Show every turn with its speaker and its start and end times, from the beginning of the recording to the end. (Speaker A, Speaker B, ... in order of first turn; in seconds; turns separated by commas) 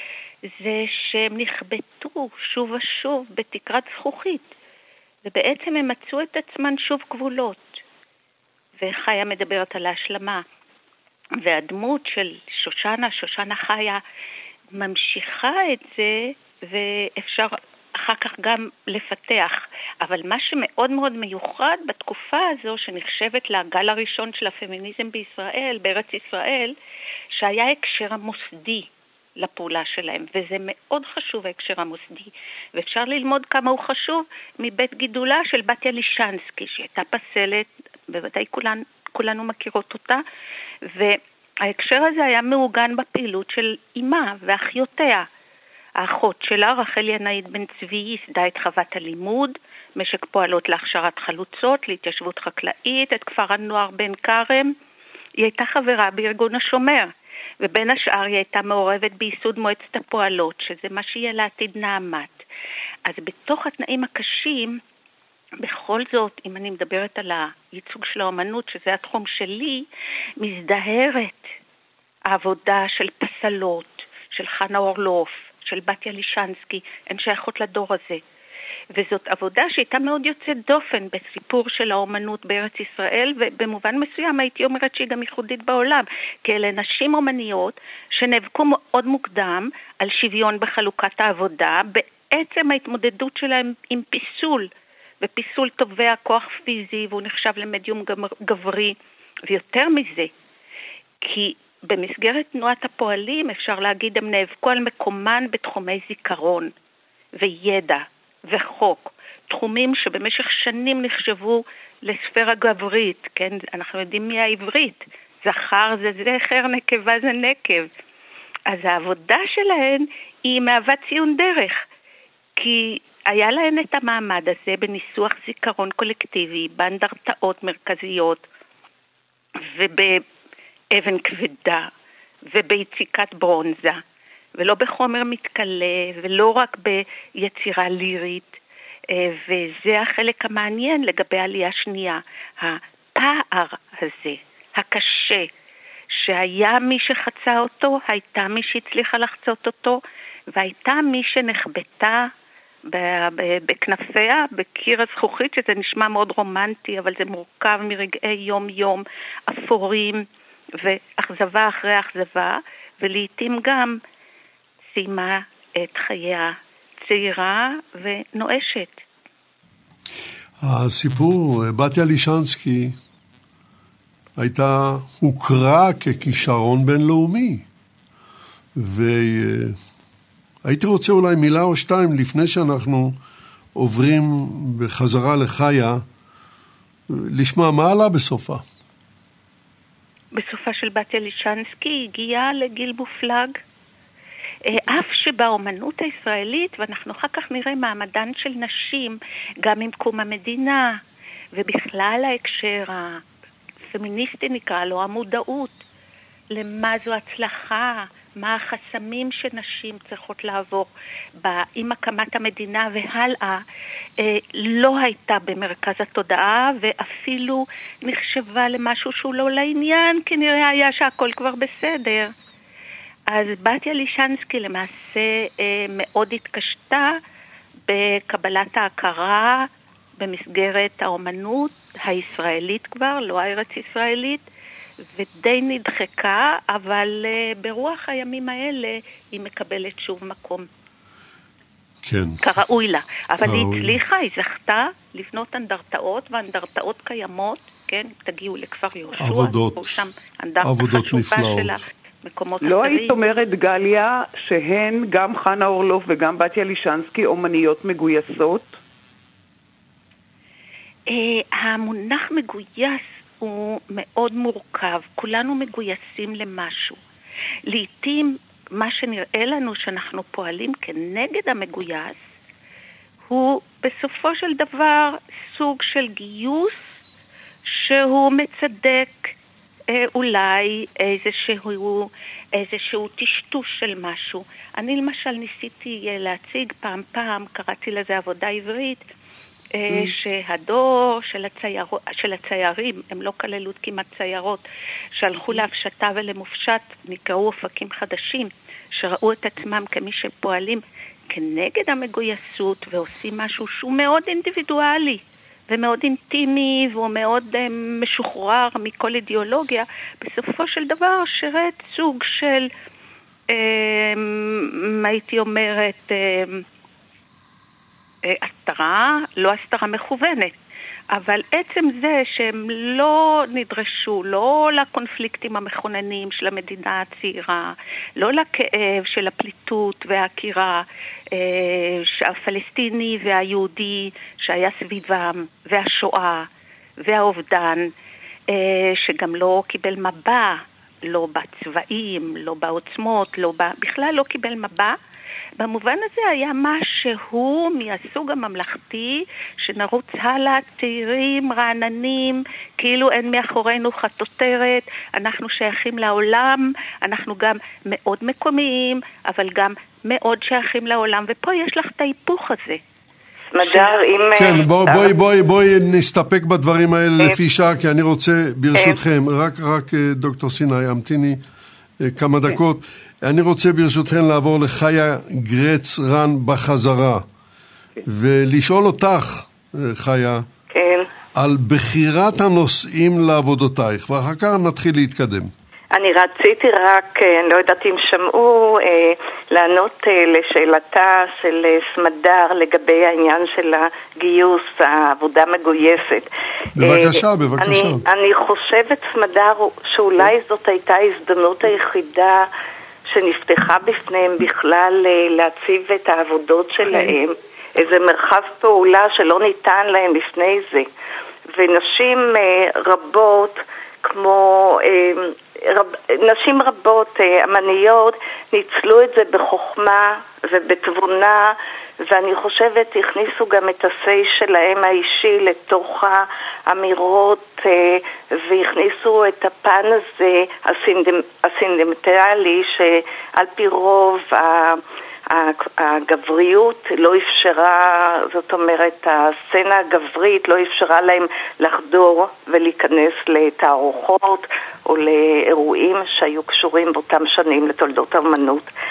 Speaker A: 0.5-4.5, Speaker A: 5.2-7.8, Speaker A: 8.8-10.4, Speaker A: 11.4-14.0, Speaker A: 14.7-26.7, Speaker A: 27.3-40.2, Speaker A: 40.8-45.3, Speaker A: 46.0-54.7, Speaker A: 55.4-62.4, Speaker A: 63.0-64.8, Speaker A: 65.6-69.9, Speaker A: 70.4-71.5, Speaker A: 72.3-78.2, Speaker A: 78.9-94.7, Speaker A: 95.2-99.0, Speaker A: 99.5-100.3, Speaker A: 101.2-106.7, Speaker A: 107.3-117.9, Speaker A: 118.7-121.8, Speaker A: 122.5-128.4, Speaker A: 129.6-130.2, Speaker A: 130.9-131.9, Speaker A: 132.5-134.0, Speaker A: 134.5-138.6, Speaker A: 139.1-145.5, Speaker A: 146.1-150.0, Speaker A: 150.5-152.3, Speaker A: 152.9-164.0, Speaker A: 164.9-169.0, Speaker B: 170.6-172.9, Speaker B: 174.4-177.6, Speaker B: 178.7-179.8, Speaker B: 180.6-183.2, Speaker B: 183.7-186.0, Speaker B: 187.1-188.6, Speaker A: 190.3-193.6, Speaker A: 194.7-201.0, Speaker A: 201.5-203.2, Speaker A: 203.8-205.8, Speaker A: 206.5-210.9, Speaker A: 211.4-213.6, Speaker A: 214.2-222.3, Speaker A: 223.3-227.2, Speaker A: 227.9-234.4, Speaker A: 235.1-240.7, Speaker B: 242.0-242.4, Speaker A: 242.4-253.3, Speaker B: 243.4-244.0, Speaker B: 249.2-250.0, Speaker B: 250.6-251.8, Speaker C: 252.6-258.8, Speaker A: 261.1-267.0, Speaker A: 267.7-272.2, Speaker A: 273.3-277.0, Speaker A: 277.6-279.4, Speaker A: 279.9-289.0, Speaker A: 289.8-294.6, Speaker C: 289.9-290.1, Speaker A: 295.2-312.7, Speaker C: 295.4-295.6, Speaker A: 313.5-316.6, Speaker A: 318.2-320.5, Speaker A: 321.1-336.5, Speaker A: 337.0-337.9, Speaker A: 338.5-344.9, Speaker A: 345.6-362.8, Speaker D: 363.5-365.1, Speaker B: 364.3-371.4, Speaker B: 372.0-377.2, Speaker B: 378.0-380.4, Speaker D: 380.7-381.1, Speaker B: 381.3-385.5, Speaker D: 385.9-402.5, Speaker B: 396.8-398.0, Speaker D: 403.1-410.9, Speaker D: 411.5-448.7